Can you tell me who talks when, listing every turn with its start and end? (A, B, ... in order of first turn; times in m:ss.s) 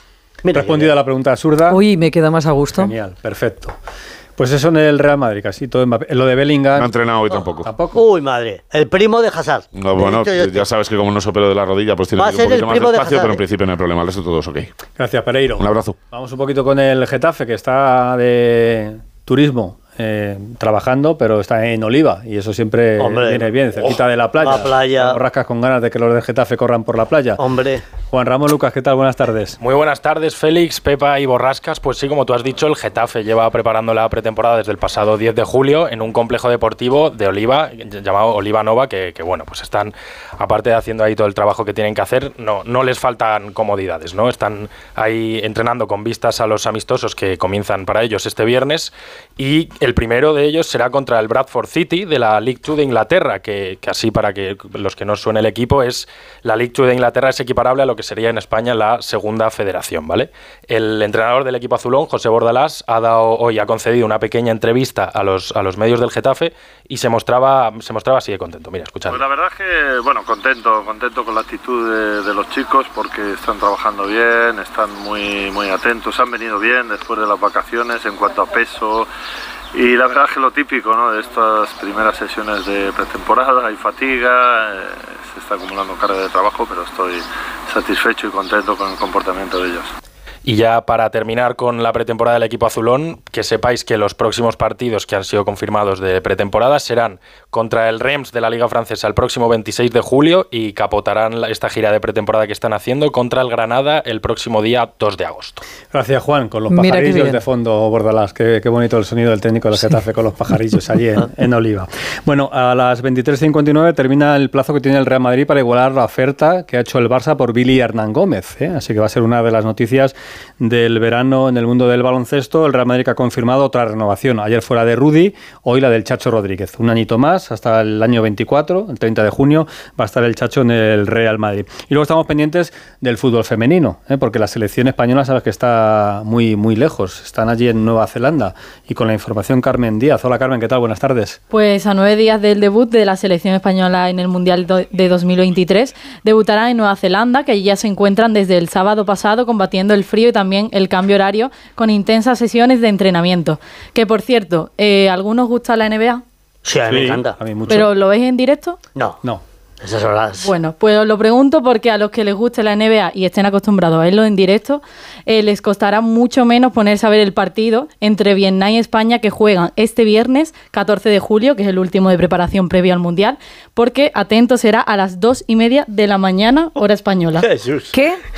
0:00.4-0:00.9 A
0:00.5-0:01.8 B
0:01.7-0:02.9 C
0:02.8-0:03.8 B
0:04.4-0:06.9 B
0:06.8-0:07.8 D
0:07.6-0:08.0 B
0:07.9-0:10.7 A
0:09.7-0:14.8 D
0:12.2-0:13.4 A
0:15.0-0:27.4 B
0:15.6-0:16.0 D
0:23.0-0:23.6 A
0:24.4-0:25.2 A
0:27.4-0:27.8 A
0:28.1-0:29.6 B
0:29.6-1:09.4 E
1:09.2-1:19.0 F
1:19.8-1:24.6 F
1:25.4-1:27.2 F
1:27.7-1:29.9 F
1:30.4-1:45.6 E
1:45.9-2:21.4 B
1:46.7-1:47.4 C
2:21.5-2:36.2 G
2:36.6-2:37.4 A
2:36.9-2:37.9 B
2:37.7-2:38.8 G
2:39.8-2:40.5 A
2:40.4-2:57.5 G
2:57.4-2:57.9 A
2:57.9-2:58.2 C